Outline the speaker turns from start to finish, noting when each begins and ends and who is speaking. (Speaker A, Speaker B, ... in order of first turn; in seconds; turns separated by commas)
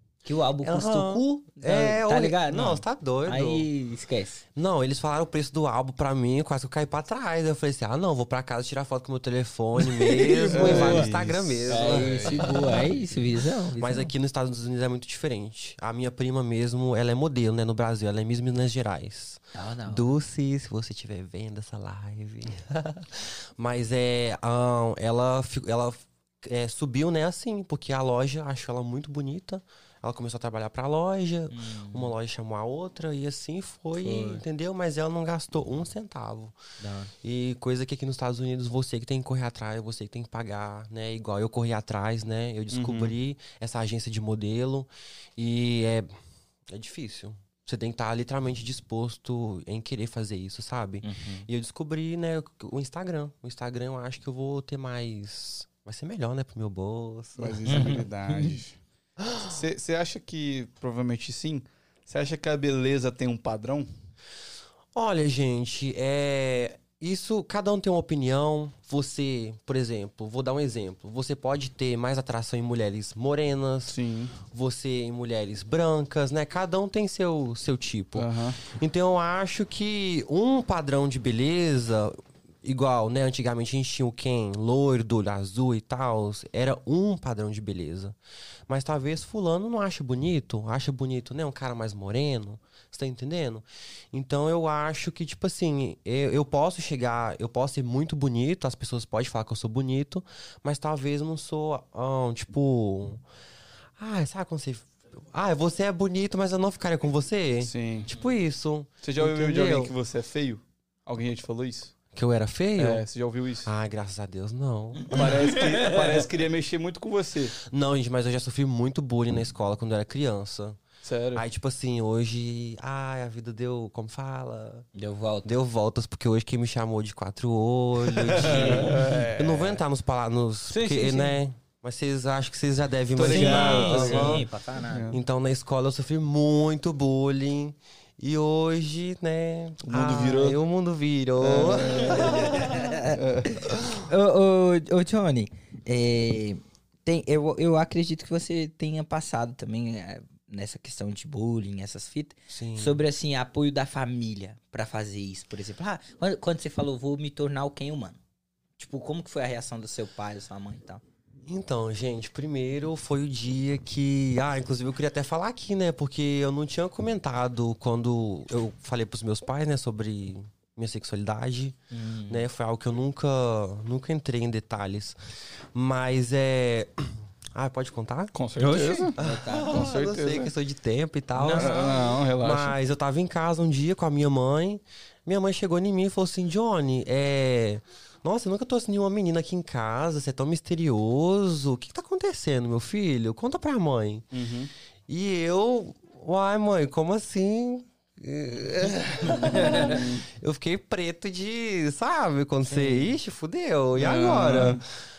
Speaker A: 0.2-4.4, Speaker B: 0.6-3.7, Speaker B: 4.5-12.8, Speaker A: 9.8-11.1, Speaker C: 10.5-12.8, Speaker A: 11.7-14.1, Speaker B: 13.8-36.5, Speaker A: 19.5-20.1, Speaker A: 31.5-32.1, Speaker A: 34.0-34.4, Speaker A: 36.8-37.1, Speaker B: 37.2-46.1, Speaker C: 42.7-43.1, Speaker B: 46.7-58.0, Speaker A: 51.0-51.5, Speaker C: 57.4-58.8, Speaker A: 57.7-58.5, Speaker B: 59.2-59.5, Speaker C: 59.3-63.9, Speaker B: 64.9-74.0, Speaker C: 73.9-74.4, Speaker B: 74.5-88.2, Speaker C: 78.1-78.6, Speaker B: 88.7-103.2, Speaker B: 104.0-109.9, Speaker C: 107.6-108.1, Speaker C: 109.0-111.9, Speaker B: 112.1-113.0, Speaker C: 112.8-113.7, Speaker B: 113.6-115.2, Speaker A: 115.0-116.2, Speaker C: 115.1-117.6, Speaker B: 117.6-120.8, Speaker C: 121.0-121.4, Speaker B: 121.3-124.9, Speaker A: 124.9-125.5, Speaker B: 125.4-134.4, Speaker C: 128.1-129.8, Speaker A: 128.4-129.0, Speaker A: 130.7-131.3, Speaker C: 133.2-135.2, Speaker A: 133.2-135.1, Speaker B: 135.1-142.9, Speaker C: 139.8-140.6, Speaker C: 141.4-143.7, Speaker A: 142.1-143.2, Speaker A: 143.9-158.2, Speaker B: 152.5-153.0, Speaker A: 158.8-161.0, Speaker B: 161.4-171.8, Speaker A: 171.9-172.5, Speaker B: 172.3-175.2, Speaker B: 175.7-194.3, Speaker C: 178.3-180.5, Speaker A: 178.6-179.9, Speaker A: 181.3-181.9, Speaker C: 181.5-182.8, Speaker C: 194.3-194.7, Speaker B: 195.1-204.8, Speaker A: 199.2-200.0, Speaker C: 199.6-200.2, Speaker A: 202.7-203.1, Speaker C: 203.9-204.8